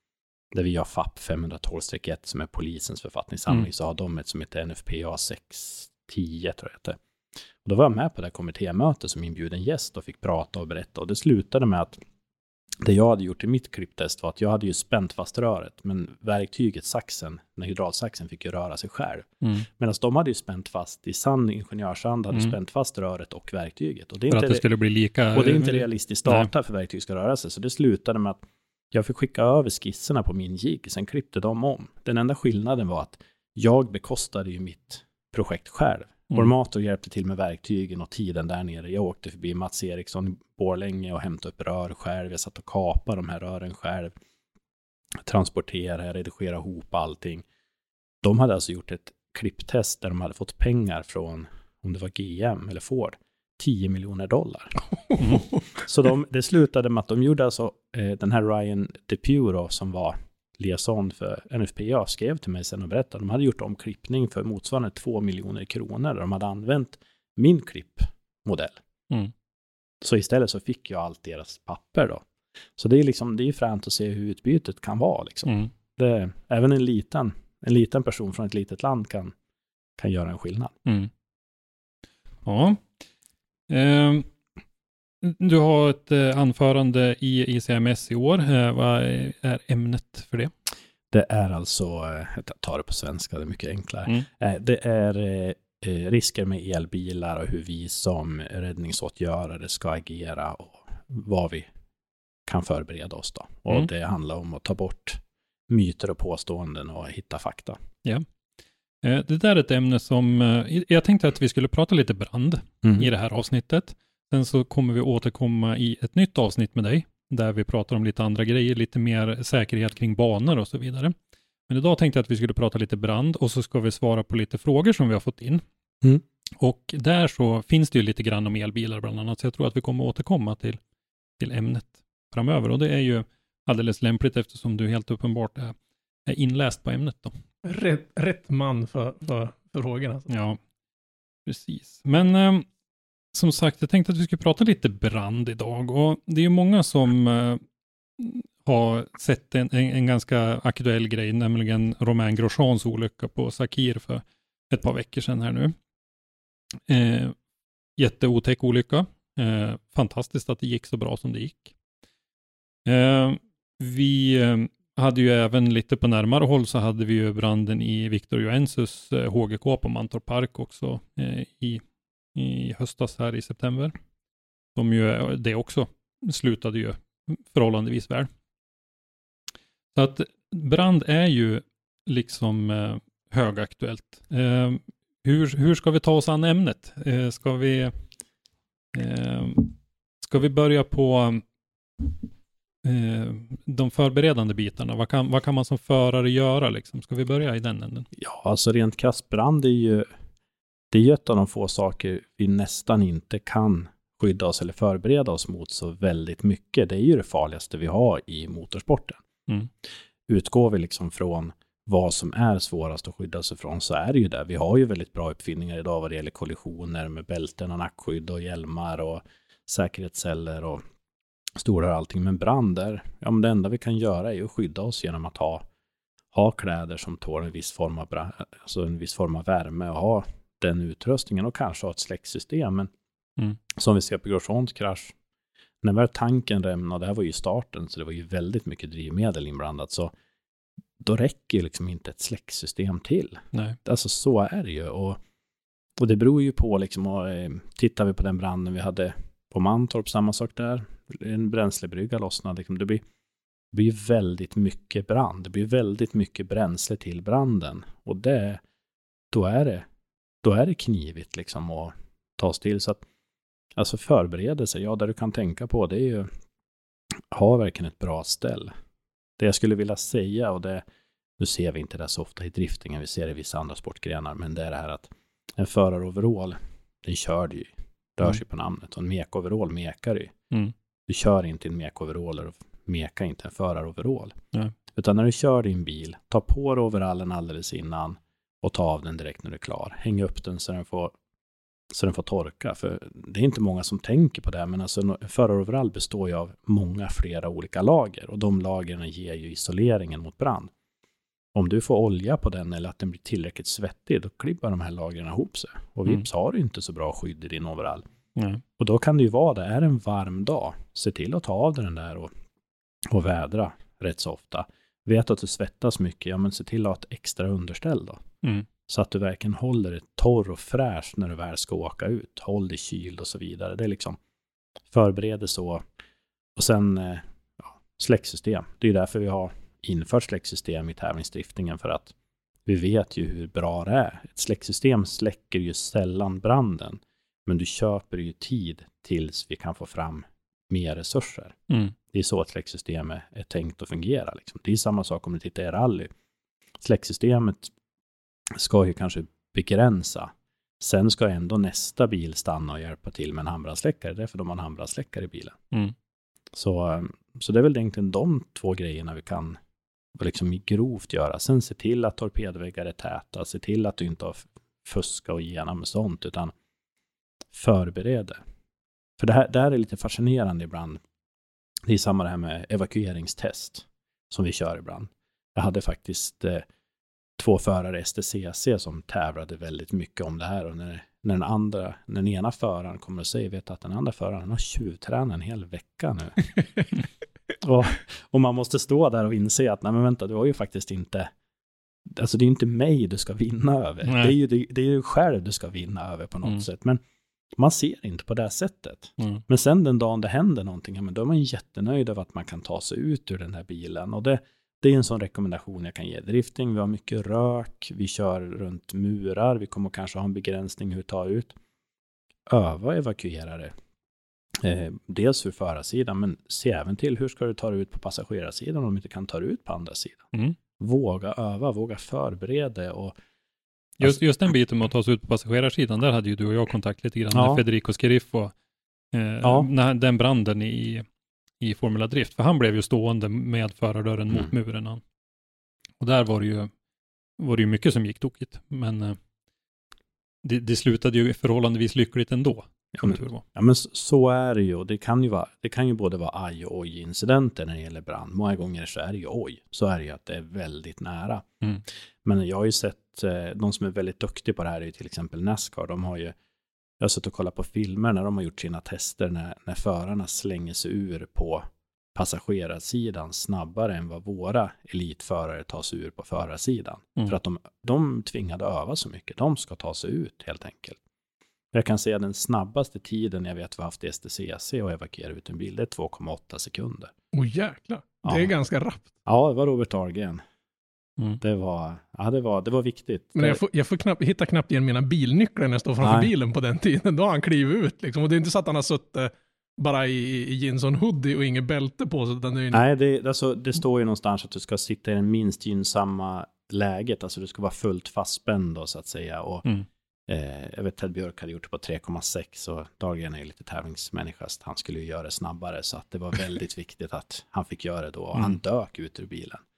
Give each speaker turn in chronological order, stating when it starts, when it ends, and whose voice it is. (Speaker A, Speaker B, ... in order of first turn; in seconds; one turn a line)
Speaker A: 0.5-7.0
Speaker A: 7.6-12.0
Speaker A: 12.8-24.6
Speaker B: 24.3-26.5
Speaker A: 25.3-44.1
Speaker A: 45.2-47.5
Speaker A: 48.2-54.8
Speaker B: 55.2-55.5
Speaker A: 55.8-68.8
Speaker A: 70.0-72.2
Speaker A: 72.8-79.3
Speaker B: 75.5-75.7
Speaker A: 80.0-80.7
Speaker B: 80.9-81.1
Speaker B: 82.5-82.9
Speaker B: 83.7-84.3
Speaker B: 85.2-90.5
Speaker A: 91.1-101.7
Speaker A: 102.5-107.8
Speaker B: 109.0-121.2
Speaker A: 112.8-113.1
Speaker B: 121.7-125.6
Speaker B: 126.6-130.8
Speaker B: 131.4-137.4
Speaker C: 137.7-140.3
Speaker B: 140.3-140.6
Speaker B: 141.5-142.7
Speaker B: 143.3-147.6
Speaker B: 148.2-155.8
Speaker B: 156.9-157.4
Speaker B: 158.0-161.7
Speaker B: 162.9-171.8
Speaker B: 172.3-173.9
Speaker B: 174.8-178.3
Speaker B: 179.9-188.0
Speaker B: 188.9-191.4
Speaker B: 192.8-198.1
Speaker A: 198.2-200.1
Speaker A: 200.9-209.2
Speaker A: 210.3-220.8
Speaker A: 221.6-225.7
Speaker A: 226.3-232.9
Speaker A: 233.8-235.1
Speaker A: 235.8-240.1
Speaker A: 241.0-245.2
Speaker B: 243.5-243.8
Speaker A: 246.0-253.0
Speaker A: 253.7-258.6
Speaker A: 259.3-259.9
Speaker A: 260.4-263.0
Speaker A: 263.8-266.3
Speaker A: 267.3-268.7
Speaker A: 269.4-270.8
Speaker A: 271.4-280.3
Speaker A: 281.1-284.4
Speaker A: 284.9-291.1
Speaker A: 291.9-300.7
Speaker A: 301.5-308.1
Speaker B: 308.4-308.6
Speaker A: 308.8-312.3
Speaker A: 313.1-318.2
Speaker A: 318.9-324.2
Speaker A: 324.9-325.8
Speaker A: 326.6-332.1
Speaker A: 332.7-341.6
Speaker B: 341.7-341.9
Speaker A: 342.1-346.1
Speaker A: 346.8-347.7
Speaker A: 348.6-355.6
Speaker A: 356.5-359.6
Speaker A: 360.2-366.5
Speaker A: 367.5-368.4
Speaker A: 369.2-371.0
Speaker A: 371.9-376.6
Speaker A: 377.4-386.5
Speaker A: 387.6-391.3
Speaker A: 392.1-397.0
Speaker B: 394.1-394.4
Speaker A: 397.6-411.5
Speaker B: 399.2-399.4
Speaker A: 412.5-413.7
Speaker A: 414.6-420.2
Speaker A: 420.8-423.1
Speaker B: 424.0-428.5
Speaker A: 427.3-427.6
Speaker B: 429.1-431.1
Speaker A: 429.4-429.7
Speaker B: 431.6-435.0
Speaker B: 436.0-436.7
Speaker B: 437.4-439.2
Speaker B: 440.4-443.4
Speaker A: 442.9-451.5
Speaker A: 452.2-456.3
Speaker A: 457.0-471.0
Speaker A: 471.7-477.1
Speaker C: 477.3-479.1
Speaker A: 478.2-478.5
Speaker A: 479.2-480.4
Speaker A: 481.4-483.6
Speaker C: 483.4-492.8
Speaker A: 486.0-486.3
Speaker A: 492.7-499.7
Speaker A: 500.3-509.6